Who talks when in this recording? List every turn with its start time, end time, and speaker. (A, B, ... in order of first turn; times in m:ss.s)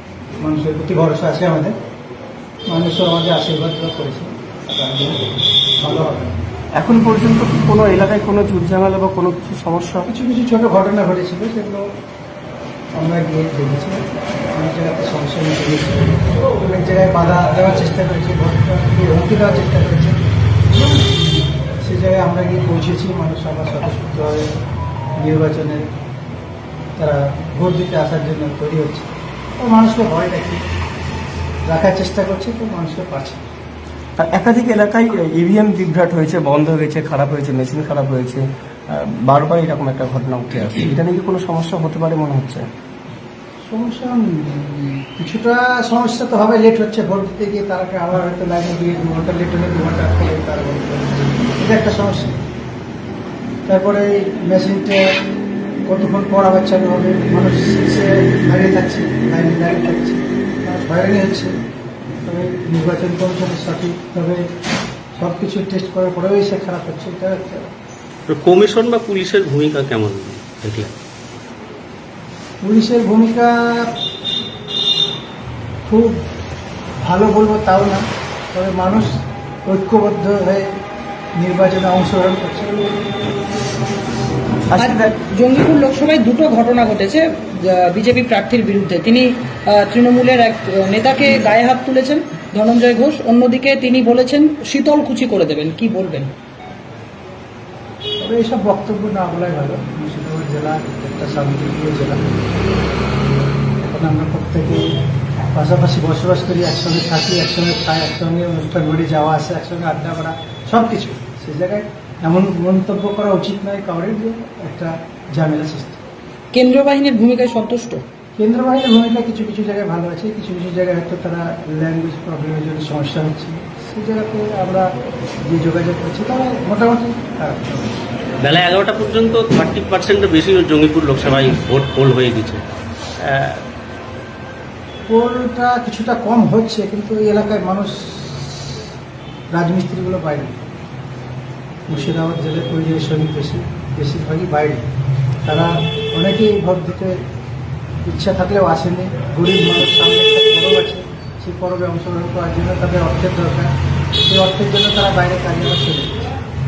0:00.4-0:01.7 A
0:02.7-0:05.3 A
0:05.8-0:06.3 A
0:06.8-0:10.1 B
0:10.1-0:11.8 A
0:13.0-0:20.2 A
0:20.7-0:21.2 A
0:21.8-0:24.5 A
0:25.2-0:25.9 A
0:27.0-0:30.6 A
0:31.7-0:33.4 A
0:34.2-0:42.6 B
0:43.7-0:52.3 A
0:53.6-0:55.2 A
0:55.9-1:01.5 A
1:02.2-1:04.4 A
1:05.2-1:07.7 A
1:08.3-1:10.9 C
1:12.6-1:13.9 A
1:15.8-1:16.2 A
1:17.0-1:20.7 A
1:21.4-1:23.0 A
1:24.7-1:25.1 B
1:24.7-1:36.3 D
1:38.2-1:42.2 A
1:43.8-1:44.9 A
1:45.4-1:56.0 A
1:56.5-1:58.0 D
1:58.4-2:04.9 A
2:05.4-2:08.0 A
2:08.4-2:12.6 C
2:13.2-2:13.6 C
2:15.1-2:18.8 A
2:19.5-2:20.6 A
2:21.9-2:24.8 A
2:25.4-2:27.2 A
2:28.0-2:33.7 A
2:34.3-2:36.3 A